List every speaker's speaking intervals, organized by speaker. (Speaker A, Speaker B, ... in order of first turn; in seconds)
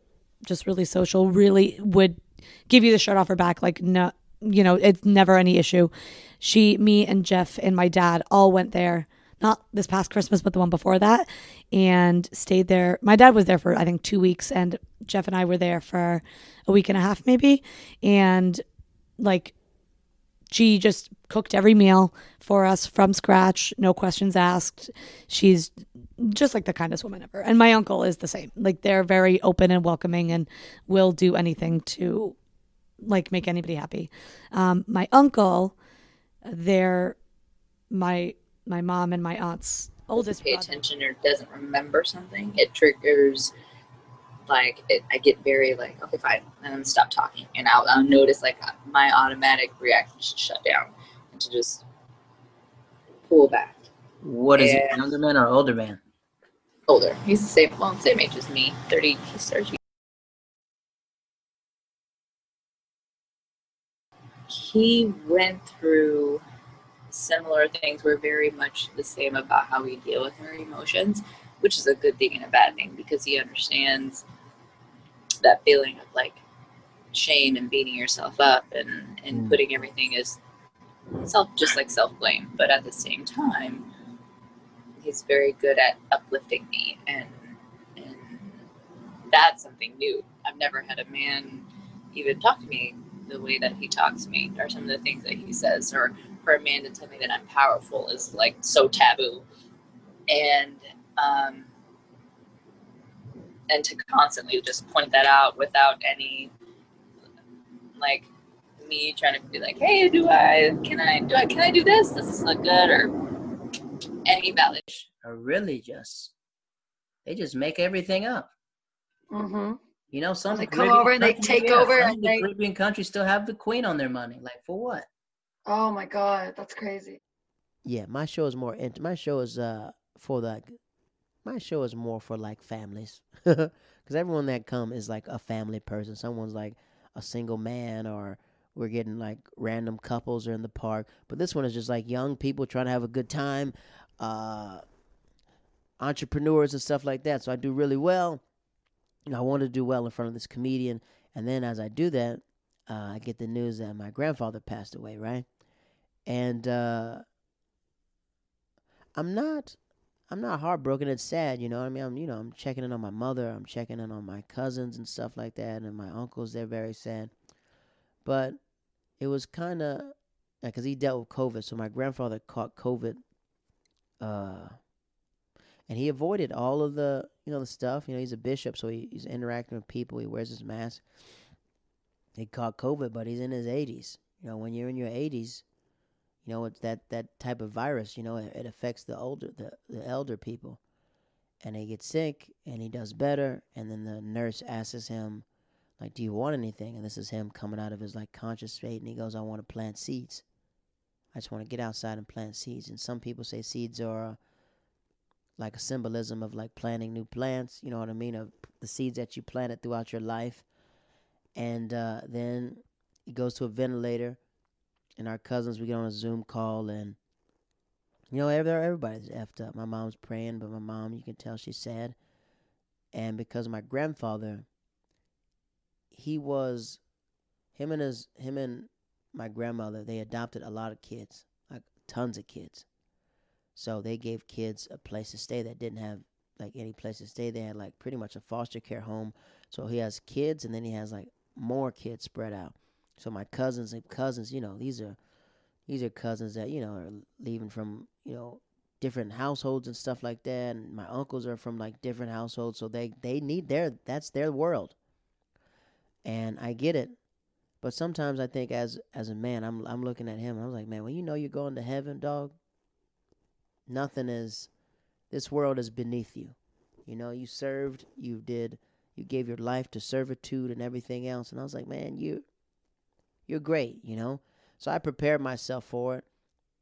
Speaker A: 0.4-18.6, 19.2-19.5, 20.5-32.4, 33.0-35.8, 36.5-37.2, 37.9-40.7
Speaker B: 40.1-43.5, 44.5-51.9, 53.3-53.9, 54.6-55.1, 56.9-59.8, 64.5-66.4, 67.1-74.2, 75.4-76.4, 77.1-80.4, 81.2-83.9, 85.0-88.7, 89.3-99.5, 100.3-101.7, 103.7-106.5, 108.0-108.3, 108.8-113.1, 114.3-114.8
Speaker C: 54.2-56.0, 79.3-79.6, 114.9-116.3, 117.2-118.5, 120.1-125.1
Speaker D: 119.3-119.8, 120.5-122.5, 125.7-127.2
Speaker E: 127.8-130.8, 131.4-144.8, 146.0-148.4, 149.3-155.5, 156.3-157.2, 159.2-159.8, 160.3-167.3, 168.2-168.6, 169.2-173.2, 174.2-174.8, 175.9-181.0, 182.3-185.6, 186.4-190.8, 191.6-195.4, 196.0-200.4, 201.3-204.4, 205.6-210.6, 211.6-214.4, 215.2-217.2, 218.3-222.2, 223.1-224.7, 226.1-227.0, 227.8-232.9, 233.8-245.2, 245.9-255.0, 256.2-257.2, 257.8-262.6, 263.9-264.7, 265.3-272.4, 273.5-276.3